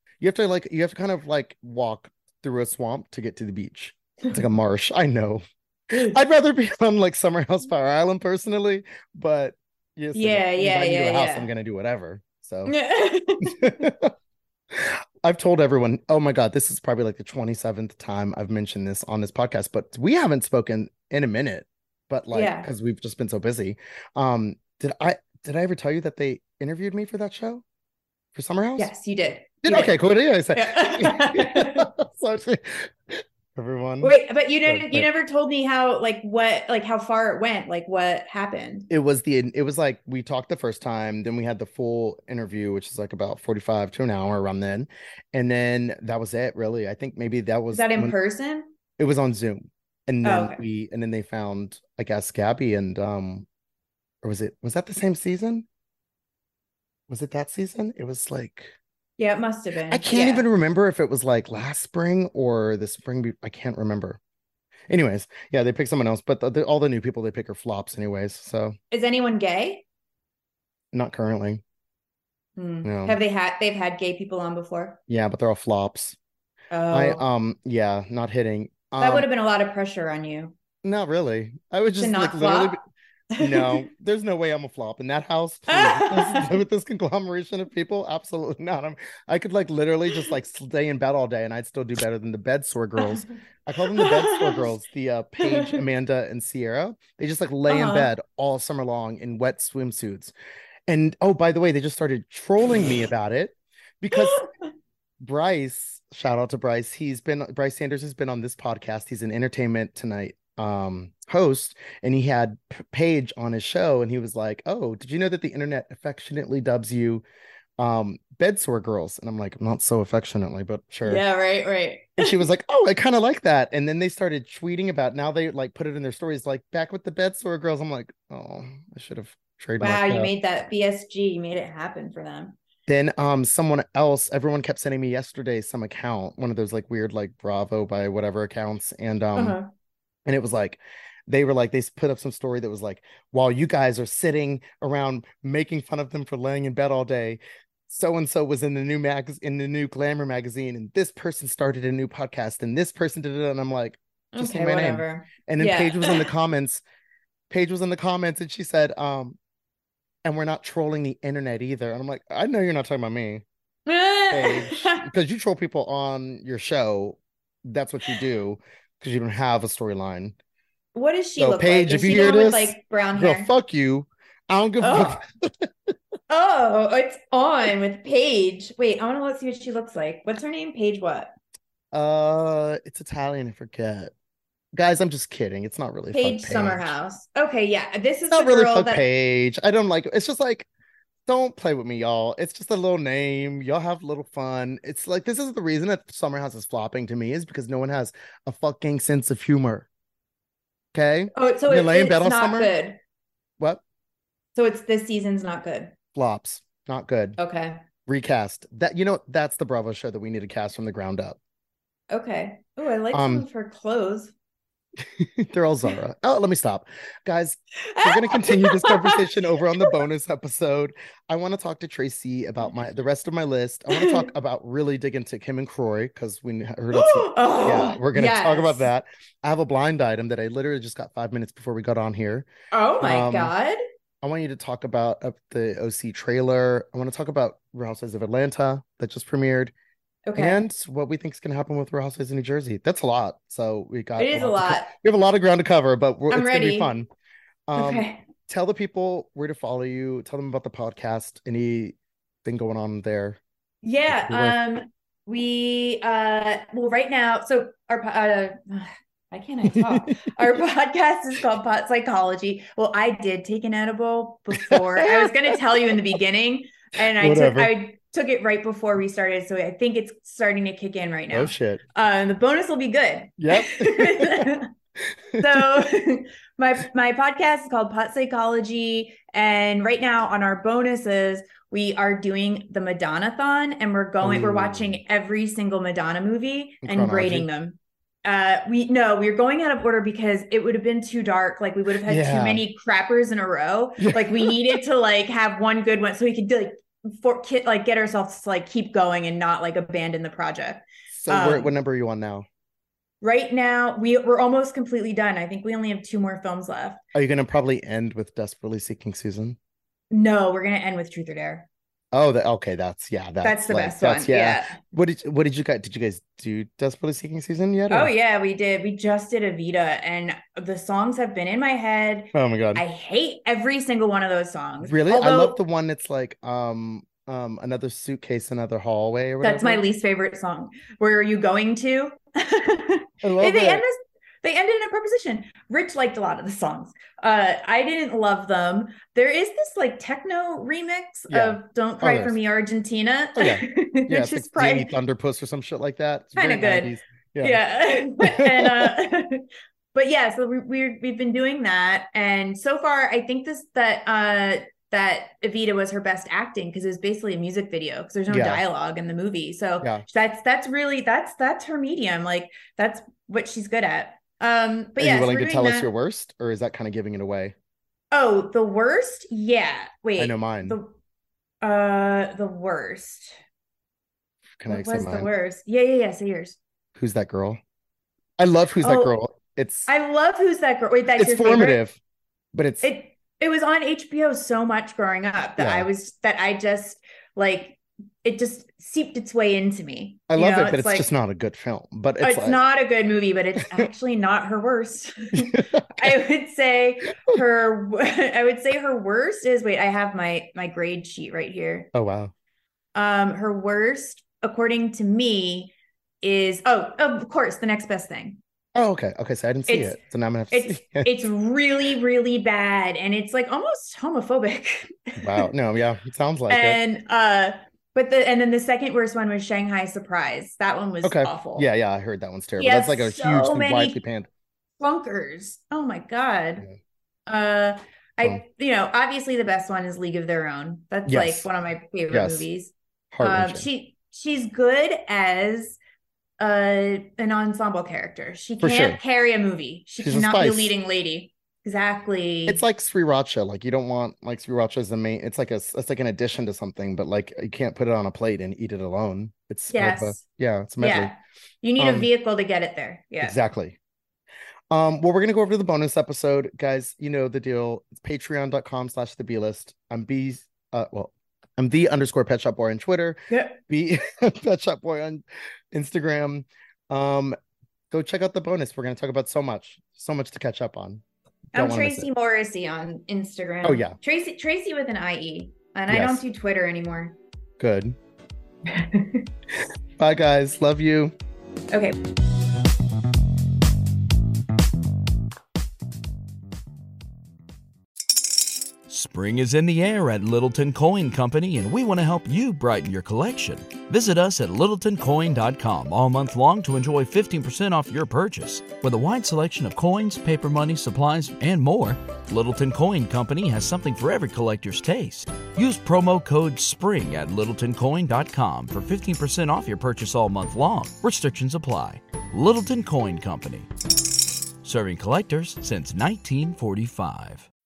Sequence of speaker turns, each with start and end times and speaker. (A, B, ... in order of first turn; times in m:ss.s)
0:00.2-0:12.7 A
0:05.9-0:06.2 B
0:10.2-0:11.5 B
0:12.7-0:13.7 B
0:13.4-0:14.1 A
0:14.7-0:27.6 A
0:22.3-0:22.7 B
0:28.3-0:28.9 A
0:28.8-0:30.0 B
0:29.6-0:34.2 A
0:30.5-0:31.9 B
0:34.0-0:38.9 B
0:34.7-0:35.1 A
0:38.9-0:48.1 A
0:47.7-0:48.7 B
0:49.0-0:53.5 A
0:50.2-0:50.6 B
0:54.2-0:55.7 A
0:57.1-0:58.8 A
0:59.2-1:00.5 B
0:59.9-1:04.2 A
1:04.9-1:08.8 A
1:08.9-1:09.8 B
1:10.9-1:11.6 A
1:12.6-1:15.0 B
1:12.8-1:13.2 A
1:15.1-1:16.2 A
1:16.7-1:17.2 B
1:16.9-1:19.3 A
1:19.0-1:20.6 B
1:20.8-1:22.8 A
1:22.0-1:22.8 B
1:23.3-1:23.9 B
1:23.4-1:40.3 A
1:25.7-1:26.6 B
1:33.8-1:34.7 B
1:35.4-1:35.8 B
1:37.7-1:38.1 B
1:40.9-1:44.5 A
1:44.1-1:44.5 B
1:45.2-1:57.2 A
1:57.8-2:01.2 A
2:01.0-2:02.4 B
2:02.2-2:10.3 A
2:09.8-2:12.6 B
2:12.9-2:19.6 A
2:19.4-2:19.7 B
2:20.2-2:36.8 A
2:34.3-2:36.3 B
2:37.5-2:39.4 A
2:40.2-2:43.4 A
2:43.9-2:45.1 B
2:44.3-2:50.4 A
2:51.0-2:53.5 B
2:51.4-2:55.9 A
2:54.8-2:55.2 B
2:56.3-3:01.3 B
3:01.9-3:04.1 A
3:04.7-3:06.9 A
3:06.1-3:09.0 B
3:08.3-3:10.7 A
3:11.3-3:19.9 A
3:20.9-3:22.7 A
3:21.3-3:23.0 B
3:24.6-3:25.9 B
3:26.2-3:27.4 A
3:27.4-3:27.8 B
3:28.1-3:31.4 A
3:32.1-3:34.3 B
3:33.1-3:33.5 A
3:35.0-3:52.5 A
3:37.8-3:40.0 B
3:43.9-3:44.3 B
3:46.9-3:48.9 B
3:52.7-3:53.8 B
3:53.0-3:53.5 A
3:54.2-3:59.7 A
4:00.3-4:00.6 B
4:00.4-4:07.1 A
4:04.2-4:04.9 B
4:06.3-4:06.9 B
4:07.7-4:13.4 A
4:07.8-4:08.2 B
4:13.8-4:34.7 B
4:14.1-4:14.6 A
4:19.7-4:20.1 A
4:24.6-4:26.0 A
4:27.2-4:27.8 A
4:31.3-4:31.8 A
4:33.4-4:34.5 A
4:35.3-4:35.8 A
4:35.4-5:01.7 B
4:44.2-4:45.0 A
4:46.8-4:47.5 A
4:52.1-4:52.6 A
4:54.0-4:54.8 A
5:01.2-5:02.4 A
5:03.2-5:07.0 B
5:07.1-5:09.6 A
5:10.1-5:11.7 B
5:12.1-5:18.1 A
5:13.4-5:14.8 B
5:17.9-5:25.6 B
5:22.3-5:22.8 A
5:24.8-5:29.8 A
5:29.4-5:44.9 B
5:33.2-5:33.8 A
5:41.3-5:42.4 A
5:43.4-5:48.9 A
5:46.4-6:05.9 B
5:58.3-5:58.6 A
6:05.0-6:07.6 A
6:08.1-6:11.0 B
6:10.2-6:10.8 A
6:11.6-6:13.4 B
6:14.6-6:15.3 A
6:14.7-6:16.6 B
6:17.0-6:17.6 A
6:18.4-6:19.9 A
6:18.8-6:19.2 B
6:19.9-6:21.8 B
6:21.2-6:22.0 A
6:22.5-6:22.8 A
6:22.8-6:31.1 B
6:25.6-6:25.9 A
6:30.3-6:32.6 A
6:32.2-6:41.9 B
6:35.4-6:36.2 A
6:41.9-6:42.3 A
6:43.0-6:48.4 B
6:48.8-6:51.1 A
6:49.7-6:50.0 B
6:50.5-6:55.5 B
6:55.2-6:56.8 A
6:56.5-7:01.7 B
7:01.0-7:04.3 A
7:02.6-7:04.0 B
7:04.8-7:06.7 B
7:07.3-7:15.8 B
7:11.1-7:11.5 A
7:12.1-7:12.5 A
7:13.1-7:13.7 A
7:16.4-7:22.6 B
7:18.6-7:19.0 A
7:20.0-7:20.7 A
7:22.5-7:31.1 A
7:29.7-7:30.2 B
7:30.8-7:33.4 B
7:31.8-7:32.1 A
7:33.2-7:33.8 A
7:34.7-7:47.4 A
7:43.3-7:43.6 B
7:47.9-7:51.0 A
7:51.5-7:52.1 A
7:51.5-7:57.2 B
7:53.6-7:54.0 A
7:55.9-7:56.2 A
7:57.6-7:58.0 A
7:58.7-7:59.3 B
8:00.0-8:01.1 A
8:01.7-8:02.0 B
8:08.9-8:33.7 C
8:34.6-8:37.5 C